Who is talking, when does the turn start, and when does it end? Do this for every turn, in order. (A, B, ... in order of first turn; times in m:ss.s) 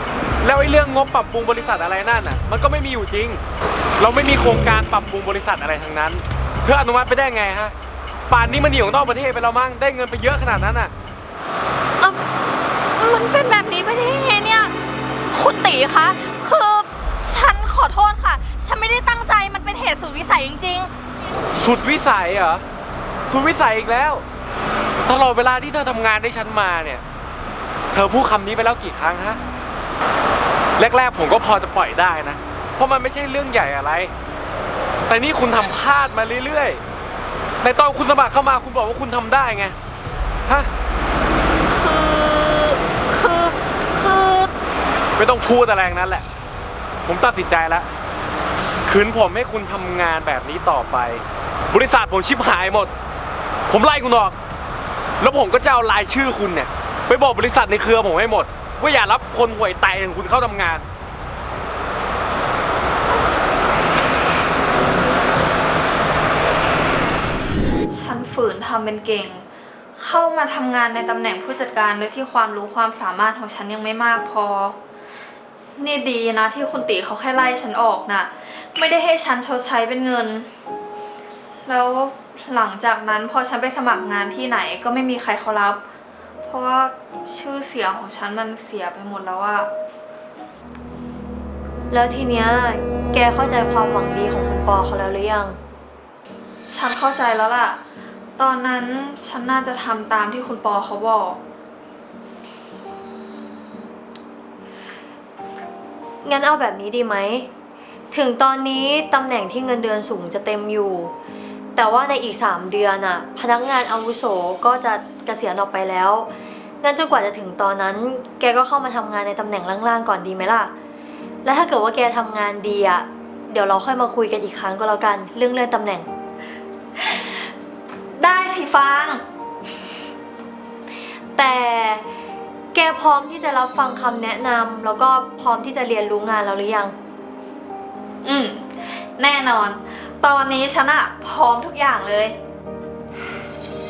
0:00.4-0:03.4 A
0:04.0-0:07.7 A
0:08.3-0:10.9 A
0:13.0-0:14.7 B
0:15.3-0:20.9 B
0:21.6-0:22.6 A
0:23.3-0:24.2 A
0:25.1-0:27.0 A
0:27.9-0:29.4 A
0:30.8-0:34.1 A
0:35.1-0:36.8 A
0:37.6-0:39.8 A
0:41.6-0:44.5 B
0:45.2-0:46.2 A
0:47.0-0:47.9 A
0:48.9-0:52.9 A
0:53.7-0:54.4 A
0:55.2-1:00.9 A
1:07.9-1:09.4 B
1:10.0-1:14.8 B
1:15.8-1:20.5 B
1:21.6-1:25.8 B
1:26.4-1:29.7 B
1:31.9-1:35.6 C
1:36.7-1:37.8 B
1:38.4-1:41.4 B
1:46.2-1:47.5 C
1:48.1-1:51.1 C
1:51.8-1:56.3 C
1:56.8-2:00.7 C
2:01.4-2:06.1 C
2:07.1-2:07.3 B
2:08.2-2:09.2 B
2:11.4-2:12.0 C
2:12.7-2:17.0 C
2:18.2-2:22.4 B